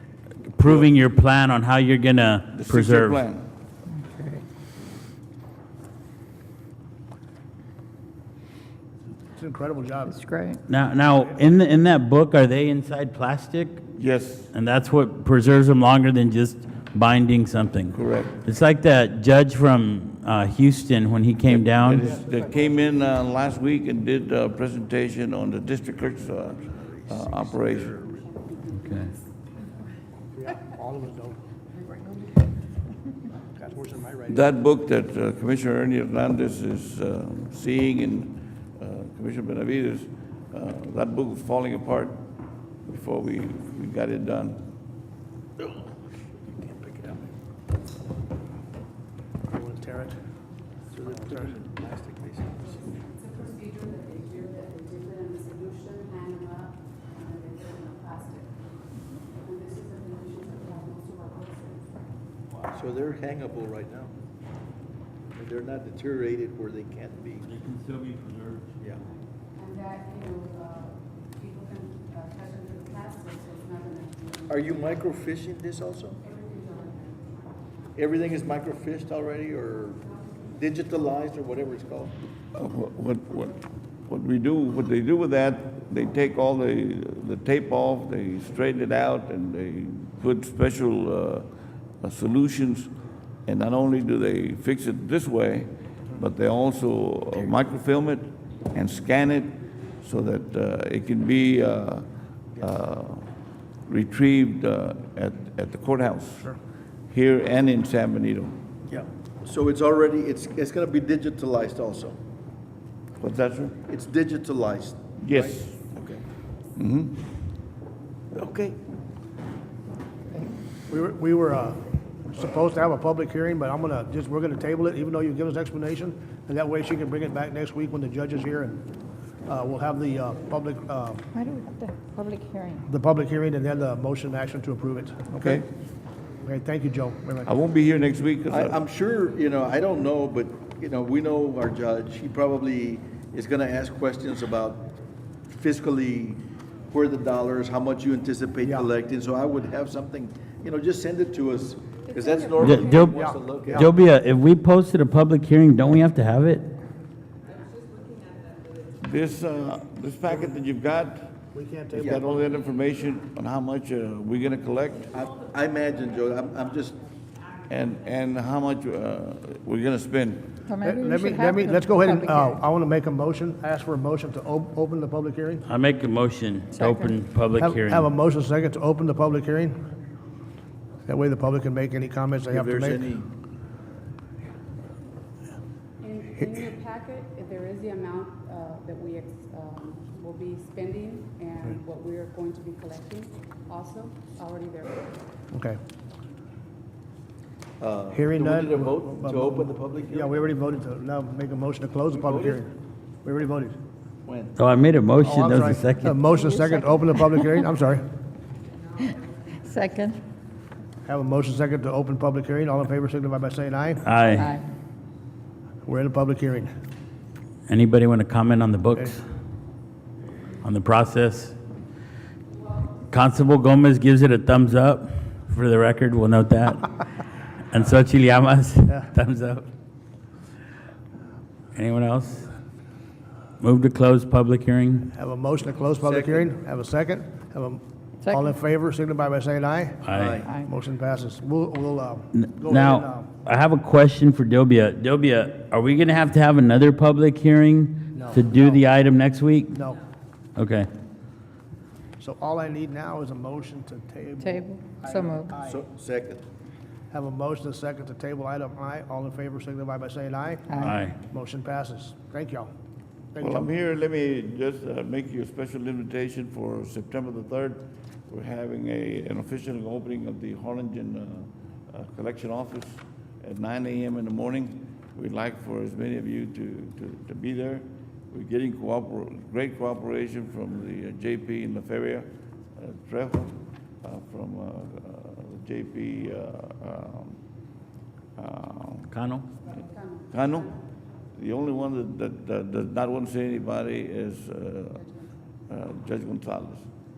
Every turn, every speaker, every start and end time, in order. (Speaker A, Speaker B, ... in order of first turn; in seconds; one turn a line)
Speaker A: 0.5-3.2
Speaker B: 2.5-3.4
Speaker C: 4.0-4.4
Speaker D: 9.3-10.2
Speaker C: 10.1-10.6
Speaker A: 10.7-13.9
Speaker B: 14.0-14.5
Speaker A: 14.5-22.1
Speaker B: 17.9-18.4
Speaker B: 21.5-28.1
Speaker E: 26.5-28.2
Speaker F: 28.2-29.2
Speaker A: 28.8-29.1
Speaker D: 30.4-31.4
Speaker D: 33.5-34.5
Speaker B: 34.3-42.2
Speaker B: 42.9-44.6
Speaker E: 45.6-47.2
Speaker D: 49.5-50.2
Speaker E: 50.9-53.0
Speaker D: 51.1-51.5
Speaker F: 53.0-58.5
Speaker F: 59.3-61.9
Speaker E: 62.5-64.1
Speaker E: 65.3-67.5
Speaker A: 67.5-68.8
Speaker F: 69.6-74.5
Speaker E: 74.5-76.2
Speaker F: 76.2-77.2
Speaker E: 78.0-82.2
Speaker B: 82.5-91.5
Speaker B: 92.0-92.9
Speaker B: 93.5-102.1
Speaker B: 102.6-103.3
Speaker B: 103.9-106.5
Speaker B: 107.1-108.6
Speaker E: 108.9-112.2
Speaker B: 113.2-113.8
Speaker E: 113.8-116.2
Speaker B: 115.2-115.9
Speaker B: 116.8-117.2
Speaker E: 118.3-118.8
Speaker D: 120.9-128.8
Speaker D: 129.5-131.2
Speaker C: 131.3-132.8
Speaker D: 132.9-135.7
Speaker B: 135.4-135.7
Speaker D: 136.4-137.5
Speaker B: 137.4-138.8
Speaker E: 138.5-144.9
Speaker E: 145.5-153.9
Speaker D: 148.6-148.9
Speaker A: 152.6-156.7
Speaker D: 153.1-153.9
Speaker B: 159.0-161.3
Speaker D: 161.5-162.3
Speaker B: 161.9-165.1
Speaker E: 165.1-167.0
Speaker B: 167.7-170.6
Speaker C: 170.7-172.6
Speaker D: 170.8-175.6
Speaker A: 175.7-178.1
Speaker C: 176.8-177.1
Speaker D: 177.6-179.8
Speaker D: 181.1-183.1
Speaker E: 182.5-183.3
Speaker F: 186.0-195.1
Speaker D: 195.5-195.8
Speaker E: 197.8-200.5
Speaker D: 198.1-202.7
Speaker E: 202.1-202.6
Speaker D: 203.2-203.8
Speaker E: 204.3-204.5
Speaker A: 204.6-206.2
Speaker D: 205.2-208.0
Speaker C: 206.2-207.6
Speaker C: 209.6-210.2
Speaker D: 211.1-214.1
Speaker A: 214.0-214.6
Speaker C: 214.3-214.7
Speaker D: 215.9-216.7
Speaker A: 217.7-219.2
Speaker A: 220.6-221.6
Speaker A: 223.0-226.9
Speaker A: 227.7-229.7
Speaker A: 231.8-232.5
Speaker A: 233.6-235.1
Speaker D: 235.1-243.3
Speaker E: 236.0-236.5
Speaker C: 238.2-238.5
Speaker A: 240.0-240.4
Speaker E: 240.1-240.5
Speaker C: 240.4-240.7
Speaker A: 242.3-249.8
Speaker D: 248.1-248.8
Speaker D: 249.7-250.0
Speaker A: 250.6-250.9
Speaker D: 252.2-255.8
Speaker C: 254.4-255.6
Speaker E: 255.6-256.4
Speaker D: 257.1-262.7
Speaker C: 260.7-260.9
Speaker A: 260.8-261.2
Speaker D: 263.3-263.7
Speaker B: 263.4-287.4
Speaker B: 288.4-289.1
Speaker A: 289.1-289.5
Speaker F: 289.8-290.3
Speaker B: 290.3-295.1
Speaker B: 295.7-296.9